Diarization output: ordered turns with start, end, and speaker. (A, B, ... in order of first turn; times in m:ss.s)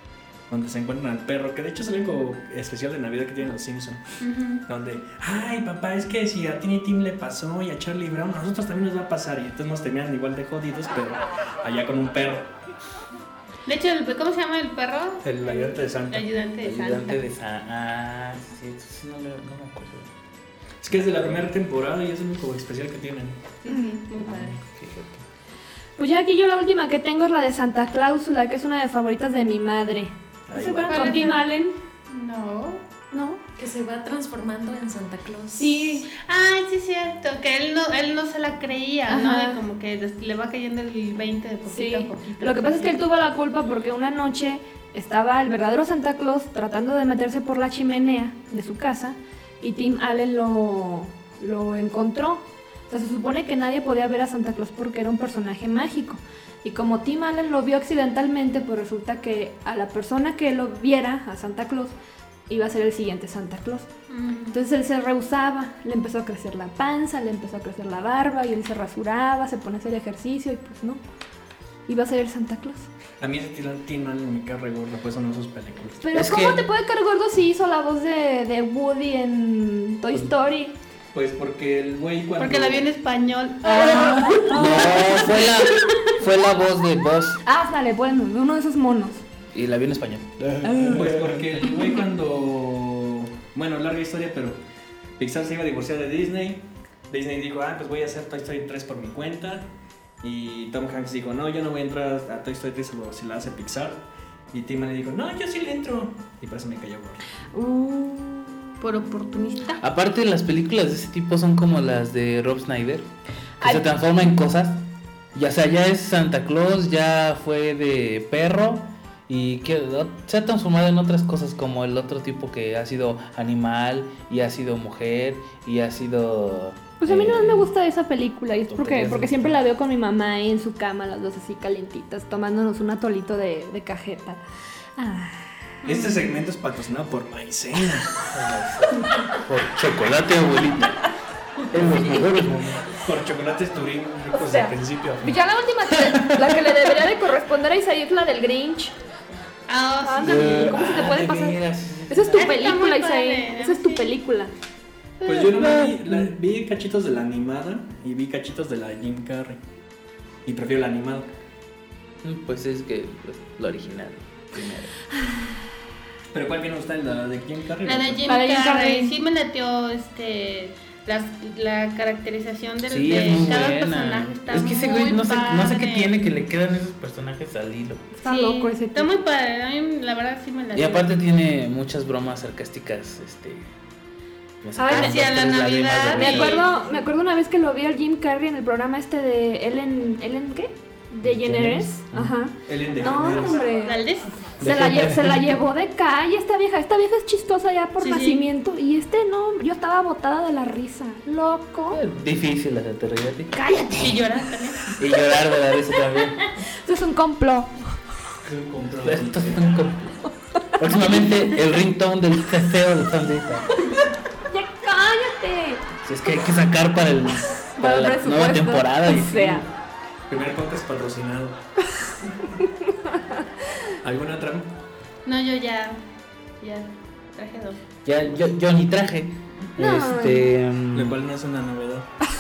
0:00.5-0:04.0 A
0:04.2-0:04.6 B
0:04.7-0:12.5 A
0:13.7-0:17.2 B
0:15.2-0:16.3 A
0:16.6-0:20.1 C
0:20.8-0:23.4 A
0:20.9-0:21.4 C
0:23.6-0:24.6 B
0:24.2-0:25.2 C
0:26.0-0:31.7 D
0:30.5-0:31.2 A
0:30.8-0:31.5 B
0:32.1-0:32.8 B
0:33.1-0:33.4 D
0:33.6-0:35.8 E
0:35.6-0:36.1 D
0:36.1-0:43.0 B
0:39.1-0:39.6 D
0:41.7-1:01.9 D
1:02.5-1:03.9 D
1:04.1-1:04.6 B
1:04.5-1:11.0 D
1:11.9-1:12.9 D
1:13.2-1:16.1 A
1:16.0-1:20.7 D
1:16.1-1:16.6 C
1:21.1-1:22.9 A
1:22.4-1:26.1 B
1:23.6-1:27.4 C
1:24.5-1:25.0 D
1:27.4-1:29.2 D
1:29.5-1:31.3 C
1:30.4-1:34.6 A
1:30.7-1:31.0 D
1:31.6-1:31.9 D
1:35.2-1:39.7 A
1:40.2-1:47.2 A
1:47.6-1:48.7 D
1:48.8-1:49.8 B
1:49.8-1:53.1 C
1:53.6-1:53.9 D
1:53.6-1:54.8 C
1:55.4-2:07.7 C
2:07.0-2:14.4 D
2:08.7-2:09.6 C
2:15.0-2:15.6 D
2:15.8-2:16.3 B
2:15.8-2:18.3 A
2:18.3-2:21.1 C
2:21.7-2:22.8 C
2:21.9-2:25.4 A
2:24.3-2:28.9 D
2:26.1-2:26.8 C
2:29.7-2:31.0 B
2:30.0-2:34.5 D
2:30.2-2:32.7 C
2:32.3-2:34.1 B
2:35.2-2:35.7 B
2:35.2-2:39.6 A
2:40.5-2:41.3 A
2:42.2-2:45.0 C
2:46.3-2:48.3 A
2:47.8-2:56.1 B
2:48.2-2:49.1 D
2:52.8-2:58.1 C
2:58.2-2:59.1 D
2:58.2-3:01.1 B
3:00.7-3:03.7 C
3:04.6-3:06.6 C
3:04.8-3:05.2 D
3:04.9-3:06.9 B
3:06.1-3:14.0 D
3:11.2-3:12.3 C
3:12.7-3:13.7 A
3:13.7-3:14.3 B
3:14.6-3:22.0 D
3:14.6-3:15.5 C
3:18.0-3:18.4 B
3:21.9-3:23.6 C
3:23.5-3:24.2 D
3:24.0-3:24.9 B
3:25.0-3:26.4 C
3:26.2-3:28.0 D
3:28.4-3:29.9 A
3:29.0-3:30.1 C
3:30.8-3:33.7 C
3:30.8-3:31.4 D
3:34.4-3:35.8 D
3:36.0-3:39.6 C
3:37.8-3:39.6 D
3:40.3-3:41.6 A
3:44.0-3:44.7 A
3:45.2-3:46.0 B
3:46.6-3:47.8 B
3:48.1-3:51.2 C
3:49.8-3:50.5 D
3:50.9-3:52.1 A